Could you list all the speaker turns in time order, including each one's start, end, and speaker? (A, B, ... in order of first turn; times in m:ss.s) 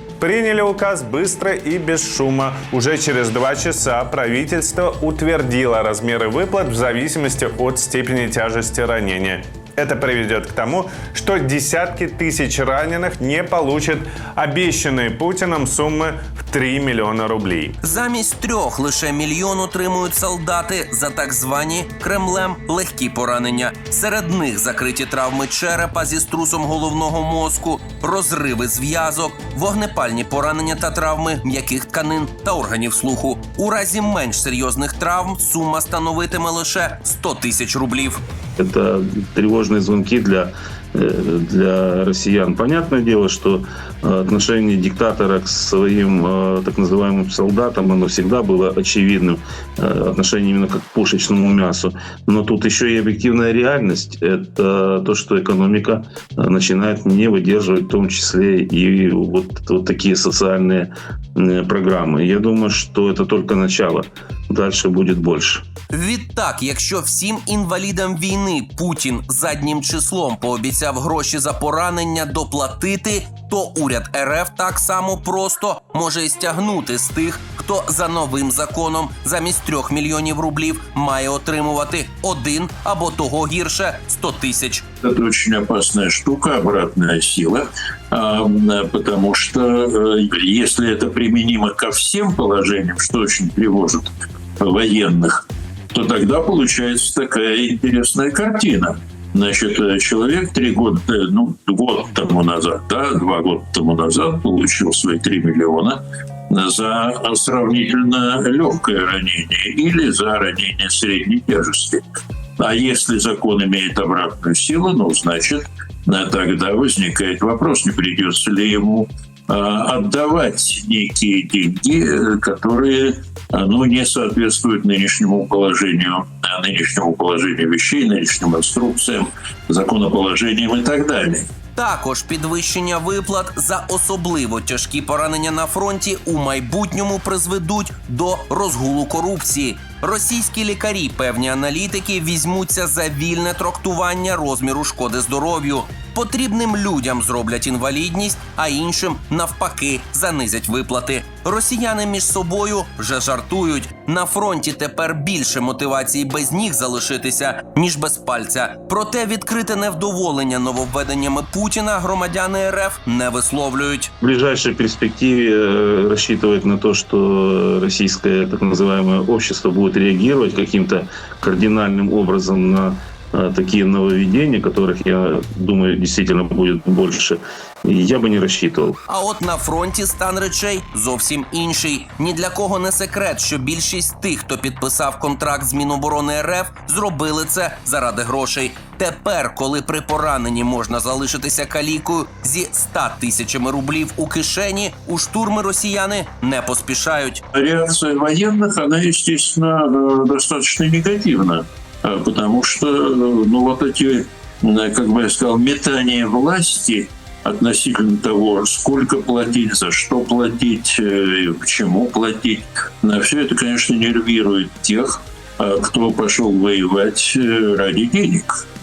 0:00.2-0:17.8 A
0:17.8-0:38.2 B
0:38.6-1:05.6 C
1:05.9-1:24.8 B
1:25.0-1:35.4 D
1:35.9-1:46.0 D
1:46.5-1:52.0 D
1:52.6-2:11.5 D
2:11.8-2:44.1 B
2:44.2-2:59.0 C
2:59.1-3:17.4 B
3:17.5-3:38.5 D